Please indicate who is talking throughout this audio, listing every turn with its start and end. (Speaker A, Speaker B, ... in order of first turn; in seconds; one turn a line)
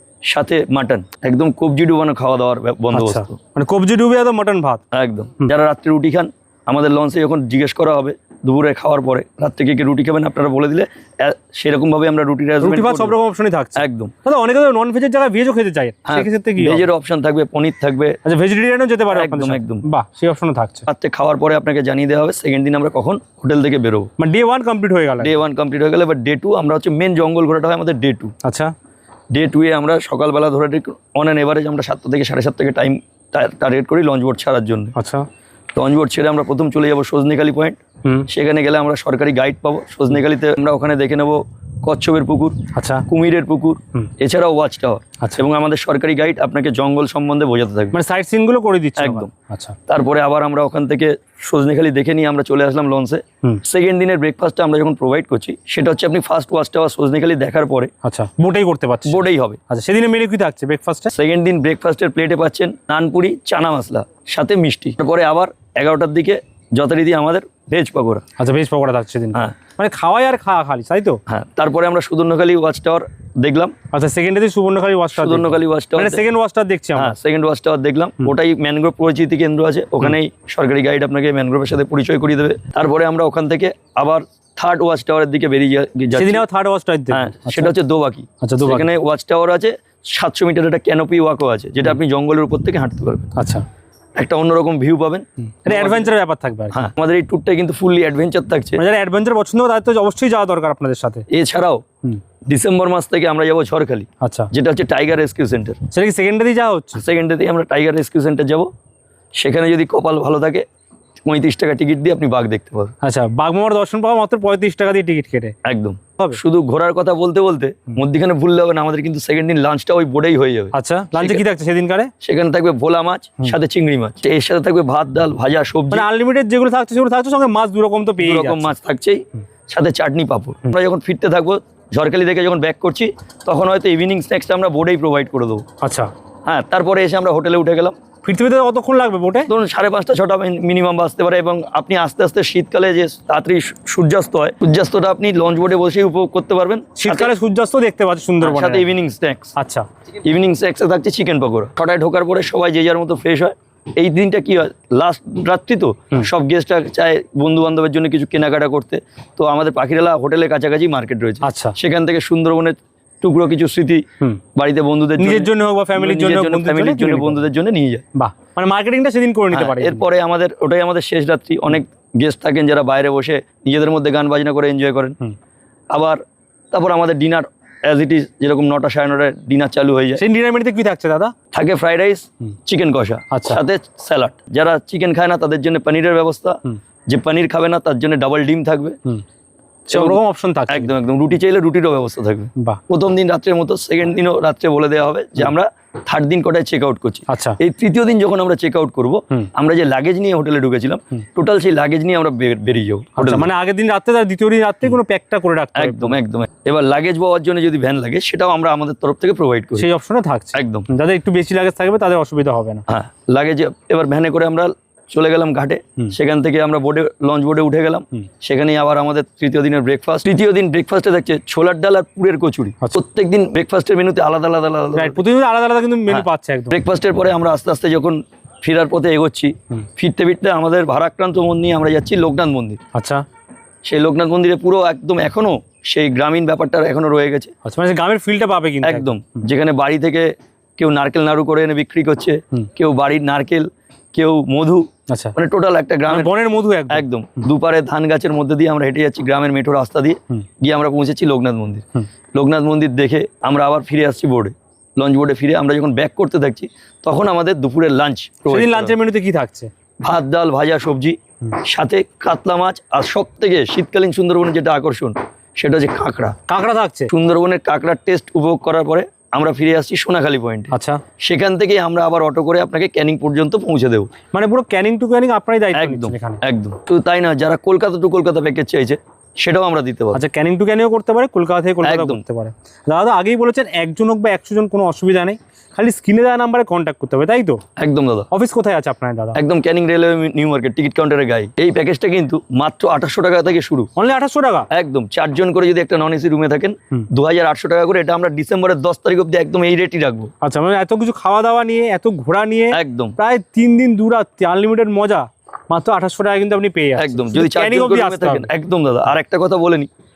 Speaker A: 0.3-3.4
Speaker B: 2.9-4.8
Speaker A: 4.9-13.2
Speaker B: 12.6-16.9
Speaker A: 13.8-14.1
Speaker A: 16.1-18.2
Speaker B: 18.2-20.9
Speaker A: 19.1-19.9
Speaker A: 20.9-24.1
Speaker B: 24.2-25.4
Speaker A: 25.2-28.3
Speaker B: 28.4-28.7
Speaker A: 29.3-35.0
Speaker B: 35.0-35.3
Speaker A: 35.8-48.0
Speaker B: 42.8-43.1
Speaker B: 47.9-49.8
Speaker A: 49.0-49.3
Speaker A: 49.9-57.9
Speaker B: 58.0-61.1
Speaker A: 59.0-59.6
Speaker A: 61.1-68.2
Speaker B: 68.4-71.2
Speaker A: 71.3-73.8
Speaker B: 73.9-77.2
Speaker A: 75.1-76.2
Speaker A: 77.0-86.4
Speaker B: 86.1-87.7
Speaker A: 87.1-93.3
Speaker B: 88.4-88.9
Speaker B: 93.4-93.7
Speaker A: 94.2-96.1
Speaker B: 95.7-96.8
Speaker A: 96.7-98.8
Speaker B: 98.8-101.2
Speaker A: 101.3-101.8
Speaker A: 102.5-105.8
Speaker B: 104.2-104.5
Speaker B: 105.9-107.0
Speaker A: 106.9-108.7
Speaker A: 109.4-110.7
Speaker A: 111.2-112.9
Speaker B: 113.0-115.5
Speaker A: 115.7-121.4
Speaker B: 120.7-122.1
Speaker A: 122.2-126.1
Speaker B: 125.9-128.8
Speaker A: 128.2-135.6
Speaker B: 135.8-136.1
Speaker A: 136.5-138.0
Speaker B: 138.2-139.5
Speaker A: 139.5-147.3
Speaker B: 147.0-148.9
Speaker A: 148.4-149.5
Speaker B: 149.6-149.9
Speaker A: 150.2-164.0
Speaker B: 161.4-161.8
Speaker A: 164.6-168.0
Speaker B: 165.2-167.5
Speaker B: 168.2-170.1
Speaker A: 169.5-175.2
Speaker A: 175.9-176.2
Speaker A: 176.7-180.2
Speaker B: 180.2-181.3
Speaker A: 181.5-189.0
Speaker B: 183.3-183.6
Speaker B: 189.9-190.9
Speaker A: 189.9-203.5
Speaker B: 197.3-197.6
Speaker B: 203.2-206.2
Speaker A: 205.8-209.9
Speaker B: 209.8-212.8
Speaker A: 210.5-210.9
Speaker A: 212.9-225.2
Speaker B: 224.9-226.8
Speaker A: 226.1-232.8
Speaker B: 232.9-233.2
Speaker A: 233.8-237.5
Speaker B: 237.7-239.4
Speaker A: 238.8-246.3
Speaker B: 246.1-247.1
Speaker A: 246.9-251.8
Speaker A: 252.3-258.9
Speaker B: 258.5-259.7
Speaker A: 260.0-266.4
Speaker B: 266.5-267.1
Speaker A: 267.1-270.7
Speaker B: 270.7-271.0
Speaker A: 271.2-274.1
Speaker B: 274.3-276.4
Speaker A: 275.7-280.2
Speaker B: 280.1-287.6
Speaker A: 281.8-282.2
Speaker A: 287.8-288.3
Speaker B: 288.3-289.4
Speaker A: 289.3-293.9
Speaker B: 294.0-294.7
Speaker A: 294.7-300.3
Speaker B: 300.4-308.5
Speaker A: 302.7-303.2
Speaker A: 307.0-309.9